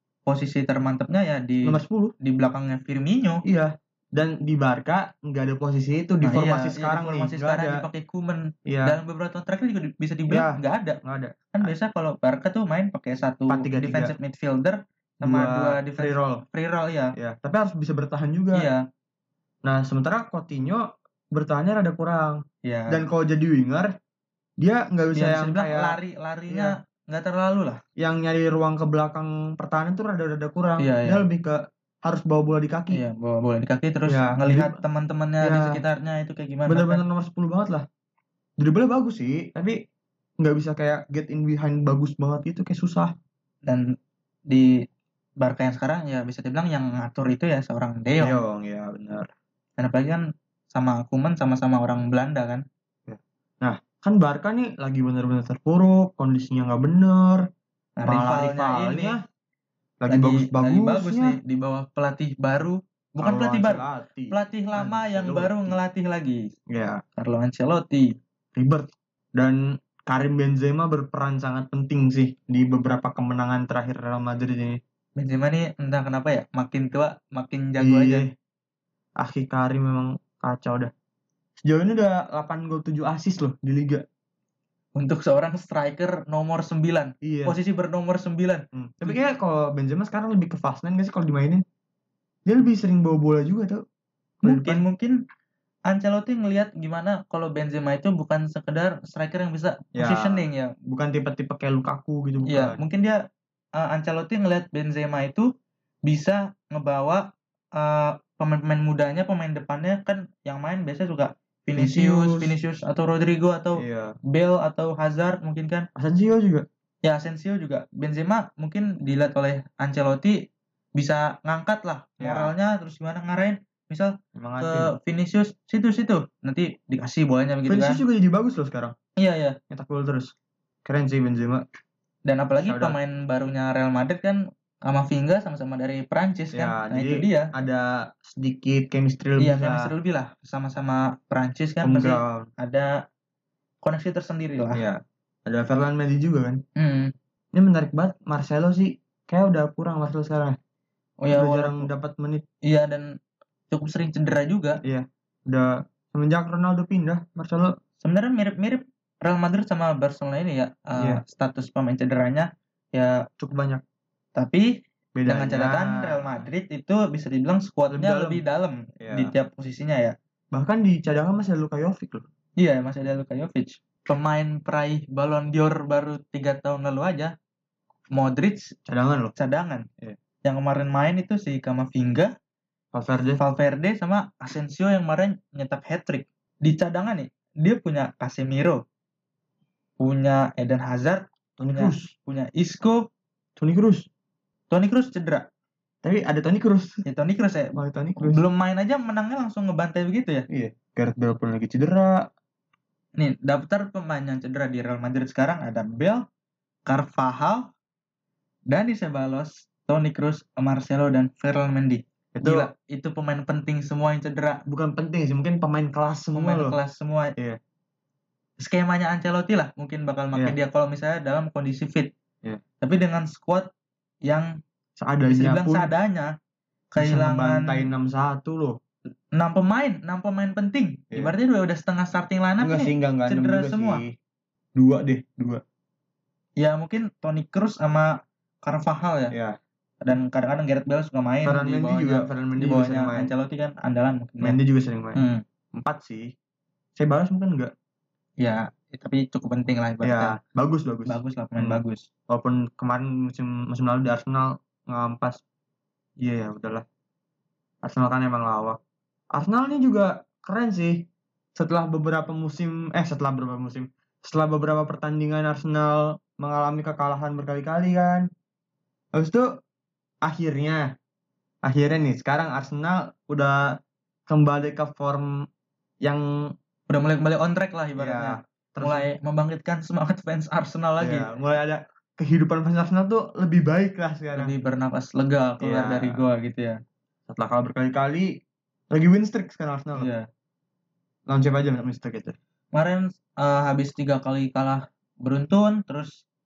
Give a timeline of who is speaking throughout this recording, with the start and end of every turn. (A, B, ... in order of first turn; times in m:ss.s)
0:00.3-0:03.4 A
0:01.6-0:02.1 B
0:03.4-0:07.8 B
0:06.2-0:11.0 A
0:08.7-0:09.0 B
0:10.3-0:11.7 B
0:11.5-0:17.2 A
0:13.5-0:14.1 B
0:15.2-0:16.4 B
0:17.2-0:18.7 B
0:18.5-0:18.8 A
0:19.6-0:23.9 B
0:22.6-0:23.0 A
0:24.6-0:26.0 B
0:25.2-0:27.8 A
0:26.5-0:26.8 B
0:28.0-0:33.0 B
0:30.8-0:31.3 A
0:32.9-0:37.0 A
0:34.1-0:34.8 B
0:35.4-0:35.8 B
0:36.7-0:37.9 B
0:38.6-0:39.8 B
0:40.4-0:43.1 B
0:43.6-0:44.0 A
0:44.5-0:44.8 A
0:45.4-0:48.4 A
0:48.2-0:49.3 B
0:49.8-0:52.6 A
0:53.1-0:57.5 B
0:58.0-0:59.2 A
0:58.1-0:59.2 B
1:00.0-1:01.4 B
1:00.1-1:06.4 A
1:03.2-1:05.8 B
1:06.7-1:07.0 B
1:07.2-1:08.1 A
1:08.5-1:14.8 B
1:15.2-1:18.3 A
1:17.8-1:18.3 B
1:19.2-1:20.9 B
1:21.6-1:24.0 B
1:25.0-1:29.2 A
1:27.2-1:27.6 B
1:28.7-1:31.6 B
1:32.5-1:33.8 B
1:34.4-1:34.8 B
1:34.4-1:35.2 A
1:35.9-1:40.7 A
1:40.0-1:42.8 B
1:42.5-1:43.2 A
1:43.8-1:45.5 A
1:46.0-1:55.9 A
1:51.8-1:52.5 B
1:53.8-1:54.2 B
1:56.0-1:56.7 B
1:57.0-2:00.4 A
2:01.0-2:08.0 A
2:02.2-2:02.5 B
2:04.4-2:04.9 B
2:07.7-2:09.0 B
2:09.2-2:09.6 A
2:09.7-2:10.3 B
2:10.8-2:11.6 B
2:12.2-2:17.5 A
2:12.6-2:13.0 B
2:16.5-2:19.9 B
2:19.4-2:22.9 A
2:21.8-2:22.5 B
2:23.8-2:24.8 A
2:24.7-2:26.6 B
2:26.8-2:27.1 A
2:27.5-2:30.6 B
2:31.2-2:31.9 A
2:31.3-2:32.4 B
2:32.6-2:33.2 A
2:33.7-2:34.8 A
2:34.8-2:37.8 B
2:38.0-2:43.3 A
2:43.4-2:43.8 B
2:44.4-2:50.2 A
2:45.2-2:46.5 B
2:47.9-2:48.4 B
2:49.0-2:49.3 B
2:50.5-2:52.3 B
2:52.6-2:57.3 A
2:58.1-2:58.8 A
2:58.9-2:59.3 B
2:59.4-2:59.9 A
3:00.4-3:02.3 A
3:02.9-3:03.4 B
3:03.4-3:08.8 A
3:10.0-3:13.0 A
3:11.6-3:12.1 B
3:13.6-3:14.1 B
3:14.7-3:15.5 A
3:16.0-3:17.0 B
3:17.0-3:20.5 A
3:17.8-3:18.4 B
3:20.5-3:22.3 B
3:23.2-3:26.2 A
3:26.9-3:27.7 A
3:28.7-3:34.6 A
3:32.4-3:32.7 B
3:34.7-3:36.8 B
3:36.4-3:37.3 A
3:38.6-3:42.1 A
3:42.8-3:43.7 A
3:44.2-3:44.6 A
3:45.0-3:45.9 B
3:45.3-3:46.3 A
3:46.9-3:47.9 A
3:47.0-3:48.8 B
3:49.3-3:54.0 A
3:52.6-3:54.2 B
3:54.8-3:55.6 B
3:56.6-3:59.3 A
3:59.3-3:59.6 B
4:00.0-4:04.6 A
4:01.4-4:03.3 B
4:04.4-4:06.3 B
4:05.2-4:05.4 A
4:07.0-4:07.7 B
4:08.4-4:10.4 A
4:10.0-4:15.4 B
4:11.1-4:12.1 A
4:16.2-4:16.8 B
4:17.8-4:18.8 B
4:19.3-4:28.3 B
4:29.1-4:29.6 B
4:30.2-4:30.9 B
4:31.6-4:35.4 B
4:36.9-4:41.3 A
4:38.0-4:39.1 B
4:41.0-4:44.5 B
4:44.4-4:46.8 A
4:45.6-4:46.2 B
4:47.3-4:50.1 B
4:50.0-4:50.3 A
4:51.3-4:52.4 B
4:52.7-4:56.2 A